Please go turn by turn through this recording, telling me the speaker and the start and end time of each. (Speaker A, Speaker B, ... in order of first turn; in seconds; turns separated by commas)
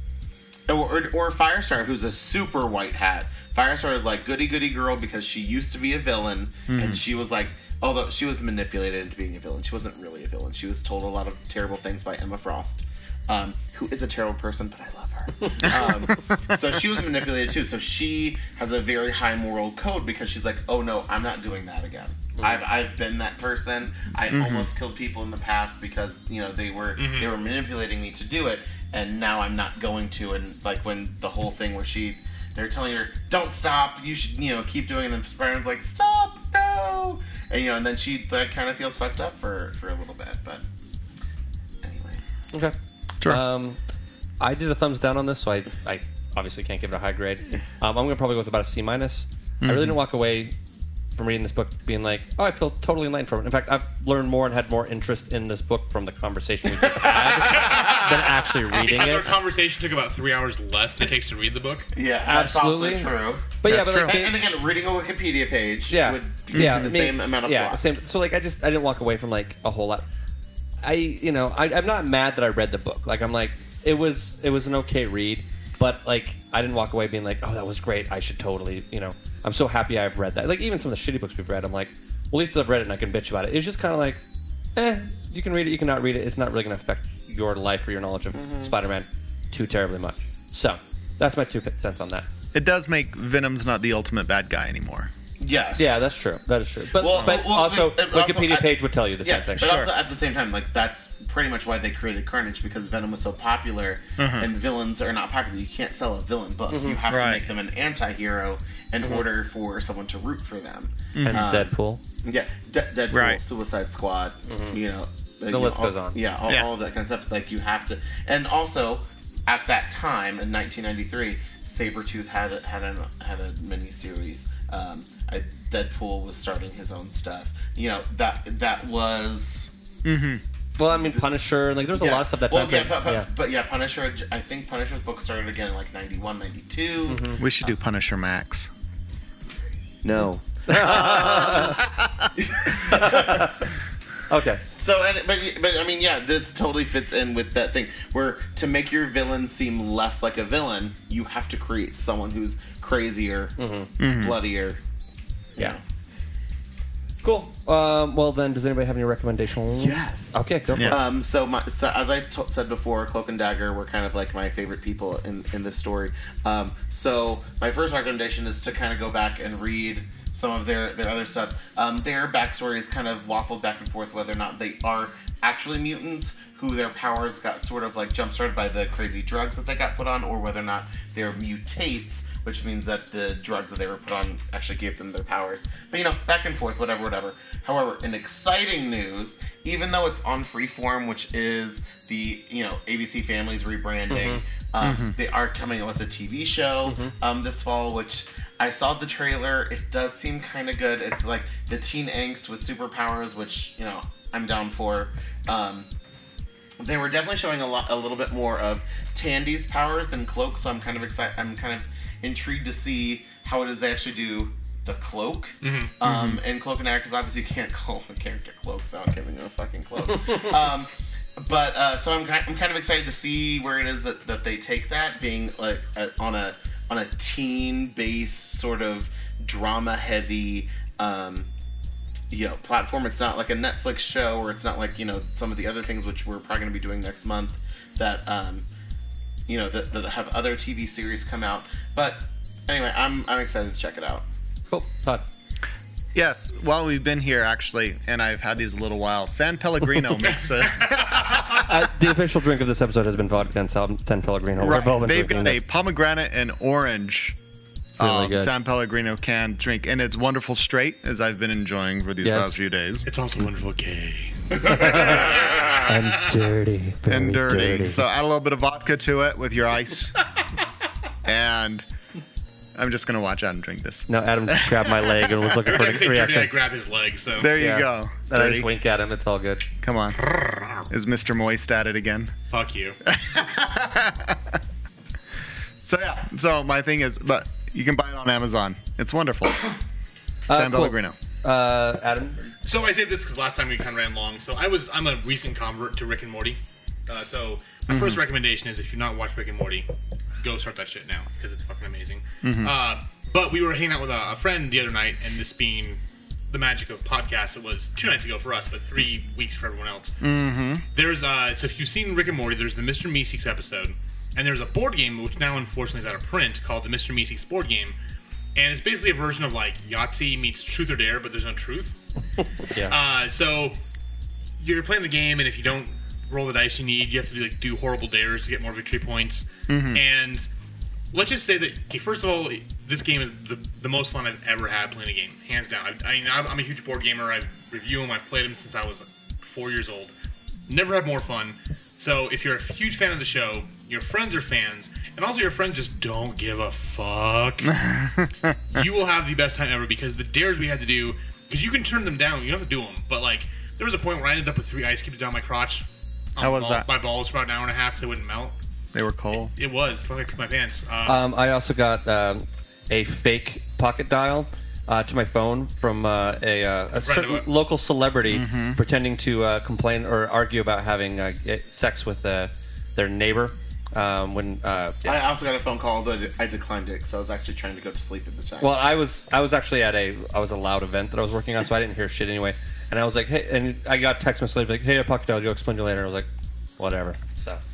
Speaker A: 0.7-40.6, Speaker B: 6.7-7.0, Speaker C: 15.4-15.7, Speaker C: 22.4-22.6, Speaker B: 24.3-24.7, Speaker D: 27.0-27.3, Speaker A: 41.8-42.2, Speaker C: 42.5-43.8, Speaker C: 44.4-50.5, Speaker B: 49.6-50.0, Speaker C: 51.1-59.3, Speaker A: 56.7-58.2, Speaker D: 57.7-58.0, Speaker D: 58.7-61.9, Speaker A: 61.9-67.8, Speaker C: 62.2-64.3, Speaker B: 63.6-64.2, Speaker C: 65.9-70.0, Speaker B: 66.5-66.9, Speaker C: 70.8-84.2, Speaker C: 84.8-92.2, Speaker A: 88.3-88.7, Speaker B: 92.5-95.1, Speaker A: 95.4-96.0, Speaker C: 95.8-99.7, Speaker A: 96.9-111.7, Speaker B: 97.0-97.4, Speaker B: 99.6-99.9, Speaker B: 104.2-104.5, Speaker C: 106.7-107.0, Speaker B: 107.1-107.4, Speaker B: 111.1-111.5, Speaker C: 111.2-112.0, Speaker A: 112.2-129.7, Speaker B: 113.1-113.4, Speaker C: 114.5-114.8, Speaker C: 115.5-116.2, Speaker B: 130.0-130.4, Speaker C: 130.8-133.3, Speaker A: 130.9-131.2, Speaker A: 131.9-137.3, Speaker C: 137.1-137.4, Speaker B: 137.4-138.7, Speaker A: 140.0-141.8, Speaker C: 140.7-141.8, Speaker B: 141.0-142.3, Speaker A: 142.4-143.5, Speaker C: 142.8-143.6, Speaker C: 144.3-144.6, Speaker A: 144.8-154.8, Speaker C: 153.6-153.9, Speaker B: 154.0-154.4, Speaker A: 155.6-155.8, Speaker C: 157.2-160.9, Speaker A: 159.7-205.9, Speaker B: 160.7-161.0, Speaker C: 194.1-194.4, Speaker B: 194.8-195.1, Speaker C: 196.8-197.1, Speaker A: 206.8-231.5, Speaker D: 215.6-215.9, Speaker B: 216.0-216.4, Speaker A: 232.3-238.7, Speaker A: 239.5-244.2, Speaker C: 244.7-245.2, Speaker B: 246.1-251.6, Speaker D: 250.3-251.4, Speaker C: 251.5-255.6, Speaker B: 254.6-257.4, Speaker C: 258.0-258.5, Speaker B: 258.0-263.1, Speaker C: 262.2-262.5, Speaker D: 263.1-265.9, Speaker C: 264.6-268.0, Speaker B: 267.1-270.1, Speaker B: 271.2-271.8, Speaker B: 272.8-275.4, Speaker C: 274.1-276.5, Speaker D: 275.6-277.5, Speaker B: 277.4-278.7, Speaker C: 277.6-279.6, Speaker B: 279.8-280.2, Speaker B: 280.9-282.3, Speaker D: 282.5-283.0, Speaker B: 283.1-284.6, Speaker B: 285.8-289.6, Speaker C: 290.5-292.4, Speaker B: 290.5-291.1, Speaker D: 292.6-299.9, Speaker B: 297.9-298.2, Speaker D: 300.4-310.1, Speaker B: 302.4-302.7, Speaker B: 310.2-310.8, Speaker D: 310.9-317.9, Speaker D: 318.5-322.0, Speaker D: 322.9-323.8, Speaker D: 324.6-330.5, Speaker B: 329.7-330.0, Speaker D: 331.1-340.1, Speaker D: 340.7-347.8, Speaker B: 347.6-348.9, Speaker D: 348.7-358.5, Speaker B: 356.4-356.9, Speaker B: 358.9-359.5, Speaker D: 359.6-361.2, Speaker C: 361.1-375.2, Speaker D: 366.9-367.4, Speaker B: 368.3-368.8, Speaker A: 375.0-378.8, Speaker C: 378.6-386.3, Speaker C: 386.8-387.6